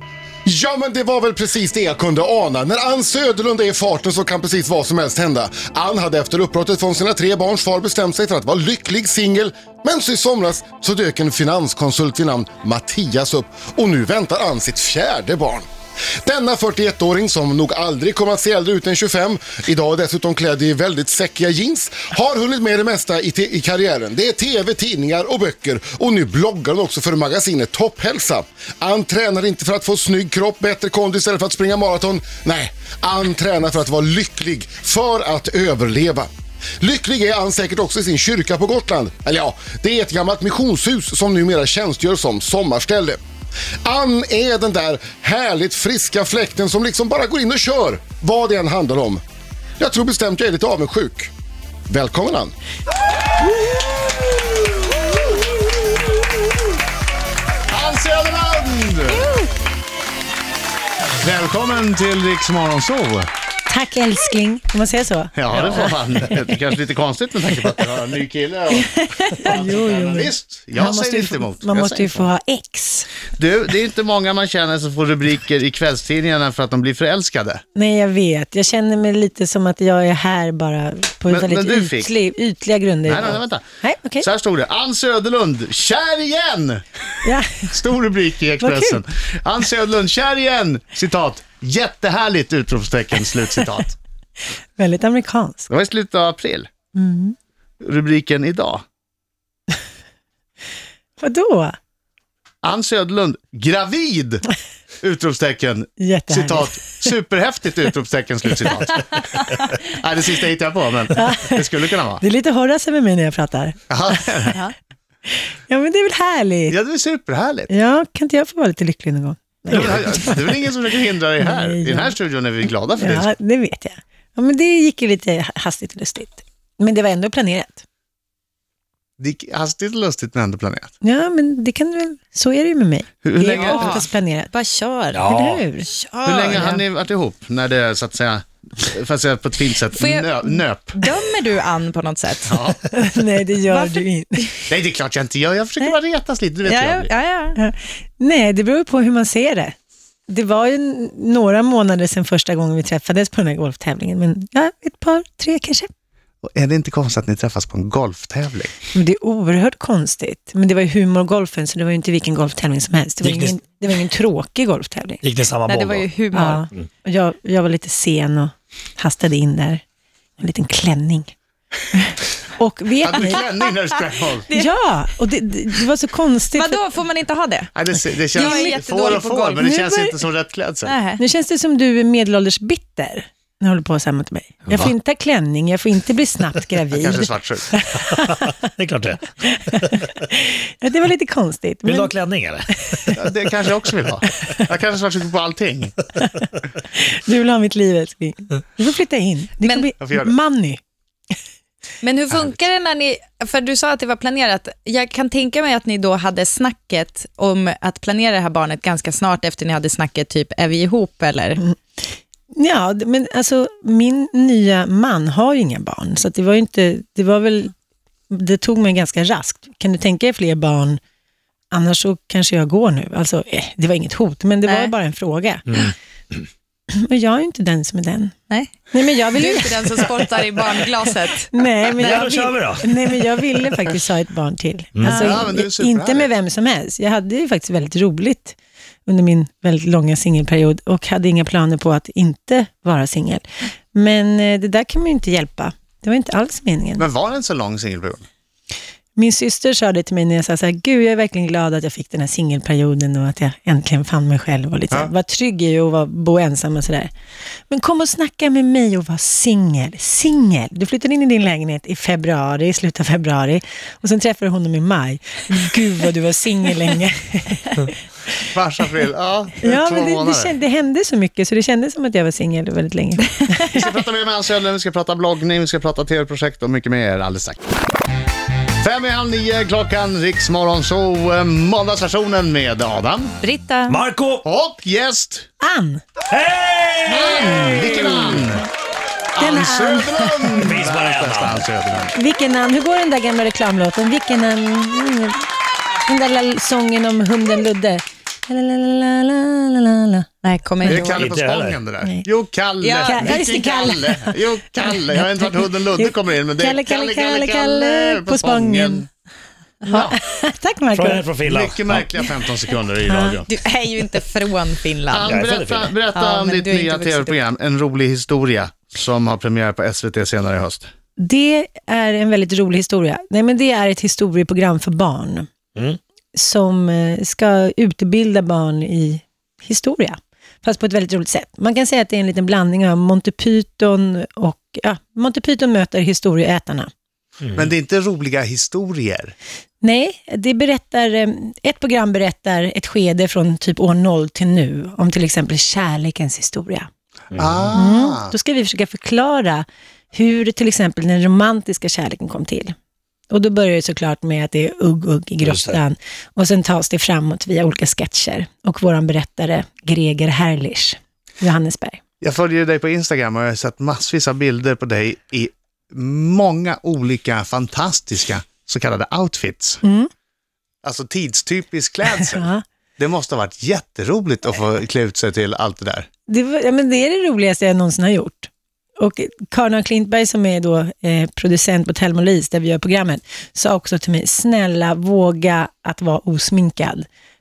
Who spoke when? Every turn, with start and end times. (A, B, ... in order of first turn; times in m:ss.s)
0:00.4-0:15.7 A
0:16.2-0:36.3 A
0:36.8-0:43.2 A
0:43.8-0:49.2 A
0:49.8-0:51.3 A
0:51.9-0:52.5 A
0:57.7-0:59.3 B
1:01.2-1:03.3 B
1:03.7-1:06.0 C
1:05.4-1:12.3 B
1:08.7-1:13.1 C
1:13.4-1:17.6 B
1:17.7-1:24.3 C
1:21.3-1:22.1 B
1:23.0-1:23.6 B
1:24.2-1:34.0 B
1:27.2-1:27.7 C
1:28.6-1:29.0 C
1:34.8-1:35.7 C
1:35.7-1:36.7 B
1:36.9-1:37.3 C
1:37.8-1:38.8 B
1:41.2-1:41.8 C
1:42.6-1:44.4 B
1:45.0-1:52.2 B
1:46.0-1:47.1 C
1:51.1-1:51.6 C
1:52.2-1:54.6 C
1:53.9-1:54.6 B
1:55.7-1:56.8 C
1:56.7-1:57.7 B
1:57.7-2:00.7 C
1:59.7-2:03.3 B
2:01.4-2:02.1 C
2:02.9-2:07.8 C
2:09.2-2:10.9 B
2:11.0-2:14.5 C
2:13.2-2:14.0 B
2:13.4-2:15.2 D
2:15.1-2:15.6 E
2:15.2-2:15.9 C
2:15.8-2:16.7 D
2:16.2-2:21.0 B
2:19.9-2:22.7 D
2:22.5-2:22.8 B
2:22.9-2:24.5 C
2:23.7-2:24.5 D
2:24.7-2:27.1 B
2:26.6-2:27.6 D
2:27.6-2:29.7 C
2:30.3-2:35.9 C
2:36.4-2:38.7 B
2:38.9-2:45.2 C
2:43.2-2:43.6 E
2:45.2-2:46.1 E
2:45.6-2:46.6 D
2:46.3-2:49.8 C
2:50.4-2:51.3 C
2:51.9-2:53.4 C
2:53.0-2:54.5 B
2:54.5-2:56.8 C
2:56.5-2:57.7 D
2:57.7-3:01.0 B
2:58.3-2:59.6 D
2:58.3-3:00.2 C
3:00.8-3:01.2 D
3:01.2-3:08.5 C
3:06.9-3:07.7 B
3:08.2-3:09.9 E
3:09.5-3:12.1 C
3:11.8-3:13.0 E
3:13.1-3:15.9 B
3:16.9-3:20.8 C
3:19.6-3:19.9 D
3:20.0-3:20.4 B
3:22.0-3:31.6 D
3:32.5-3:37.7 C
3:38.3-3:41.0 C
3:41.7-3:45.9 C
3:44.6-3:44.9 D
3:46.9-3:48.3 C
3:48.5-3:52.1 D
3:48.9-3:50.1 C
3:51.5-4:07.0 C
3:52.0-3:53.1 E
3:55.0-3:55.3 E
3:55.0-3:55.4 D
3:55.1-3:56.3 B
4:07.0-4:08.3 B
4:09.2-4:17.1 C
4:17.7-4:27.9 C
4:28.5-4:30.5 B
4:29.6-4:33.9 C
4:33.7-4:37.6 B
4:38.8-4:43.3 B
4:43.4-4:44.0 D
4:43.9-4:44.4 E
4:44.4-4:45.5 B
4:45.6-4:46.0 C
4:46.3-4:48.4 E
4:47.1-4:48.6 B
4:49.3-4:52.1 B
4:49.4-4:50.7 C
4:50.6-4:51.6 E
4:52.1-4:55.5 C
4:56.0-5:00.3 C
5:00.4-5:01.3 D
5:00.8-5:09.1 B
5:01.0-5:01.8 E
5:02.8-5:03.4 D
5:03.0-5:09.0 C
5:09.9-5:11.3 C
5:09.9-5:10.2 B
5:10.9-5:12.0 E
5:11.4-5:13.5 B
5:13.1-5:13.4 C
5:13.5-5:15.4 D
5:15.1-5:20.9 B
5:15.2-5:15.9 E
5:16.1-5:17.4 D
5:21.2-5:25.5 C
5:26.3-5:36.9 C
5:37.5-5:39.3 B
5:39.8-5:46.9 C
5:47.3-5:47.7 E
5:47.4-5:48.3 B
5:47.7-5:52.7 C
5:53.3-6:02.0 C
5:55.4-5:55.8 E
6:02.2-6:09.8 B
6:09.8-6:10.1 C
6:10.8-6:16.1 B
6:12.2-6:12.6 C
6:16.3-6:27.1 C